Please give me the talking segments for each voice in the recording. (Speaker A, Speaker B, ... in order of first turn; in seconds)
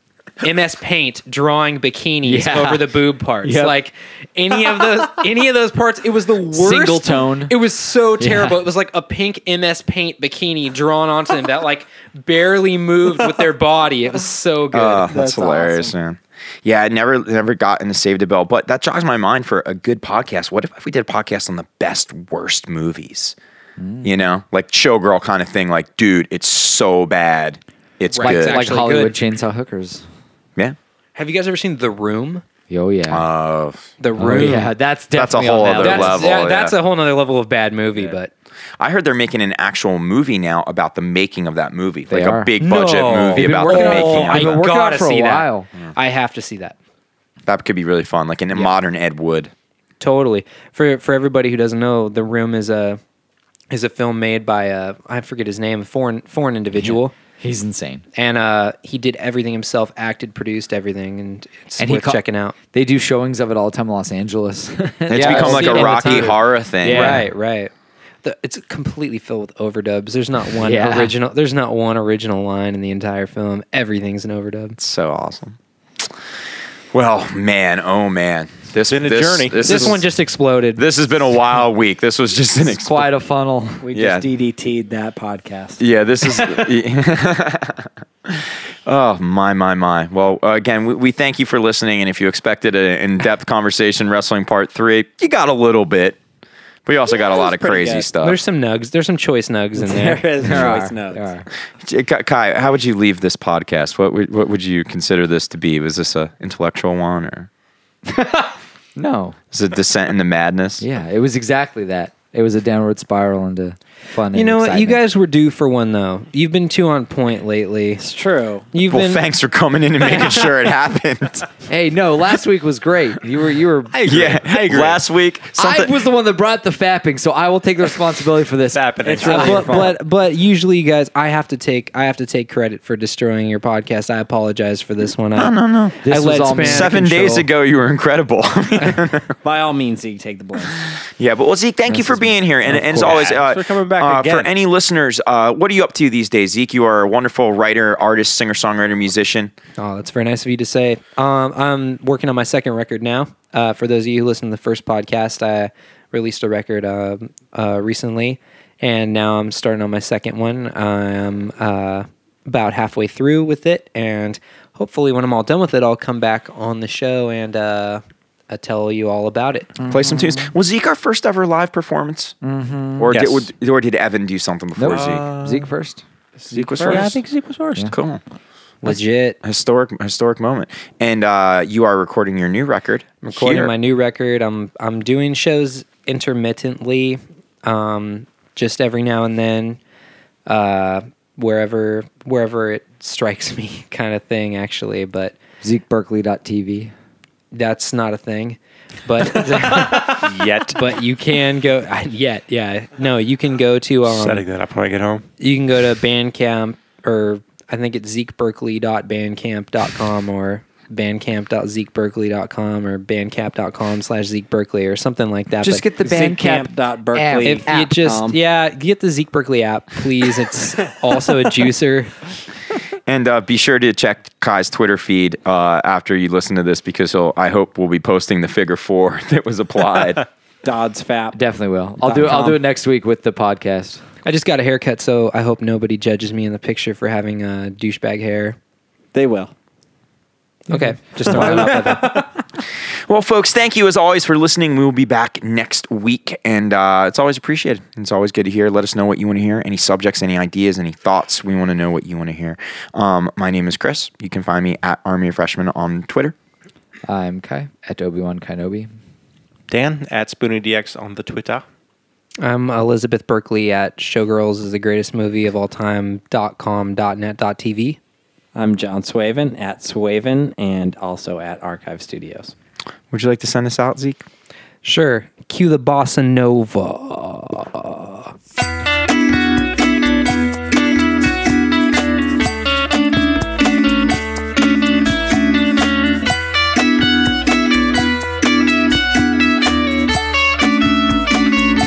Speaker A: 0.4-15.1, 28.1-29.1, 31.1-32.4, 34.0-34.7, 35.8-38.3, 42.6-46.8, 50.0-53.0, 53.7-57.1, 58.1-62.5, 65.1-67.7, 68.2-74.8, 79.6-80.8, 98.2-100.2, 114.3-118.0, 118.7-119.2, 129.2-136.9, 149.8-169.8, 178.8-179.4, 183.2-189.8, 190.4-195.3, 197.5-204.4, 205.4-215.8, 217.4-222.1, 234.2-238.6, 240.7-242.3, 262.4-268.0, 274.8-278.3
Speaker B: 2.2-3.8, 6.5-7.5, 8.2-8.6, 23.8-24.1, 28.2-30.0, 32.7-33.3, 34.1-36.4, 42.1-42.5, 43.3-45.7, 56.8-58.0, 61.8-62.2, 62.7-67.3, 70.6-71.1, 82.6-83.8, 100.4-101.5, 108.1-109.4, 110.8-115.0, 121.7-124.0, 125.5-129.9, 136.0-137.4, 141.9-143.1, 169.8-170.5, 172.4-173.1, 174.8-176.0, 195.6-196.9, 215.6-217.9, 231.3-234.0, 240.7-242.1, 257.1-258.9
Speaker C: 14.7-23.4, 24.0-28.7, 33.1-33.9, 35.1-36.8, 38.8-44.6, 47.5-49.5, 65.1-67.3, 74.8-75.5, 76.9-80.1, 80.8-83.1, 83.9-84.3, 85.8-96.2, 96.8-98.4, 101.8-107.5, 109.5-110.8, 118.8-121.5, 124.0-126.0, 135.3-136.0, 136.6-139.3, 140.9-149.5, 169.9-172.3, 173.0-175.3, 176.5-177.2, 177.9-178.2, 179.4-183.7, 223.1-230.3, 243.1-256.4, 273.1-274.2
Speaker D: 15.1-15.9, 83.8-86.7, 97.1-98.1, 99.8-101.3, 118.0-118.7, 129.1-129.9, 139.4-140.8, 176.5-177.1, 216.0-218.4, 230.6-231.4, 232.0-232.6, 239.1-239.5, 241.3-242.3, 268.6-272.5
Speaker E: 78.9-80.0, 123.9-125.0, 128.7-129.9, 142.7-144.5, 173.1-173.5, 174.9-175.7, 176.8-177.9, 199.6-200.8, 204.1-205.2, 259.7-261.6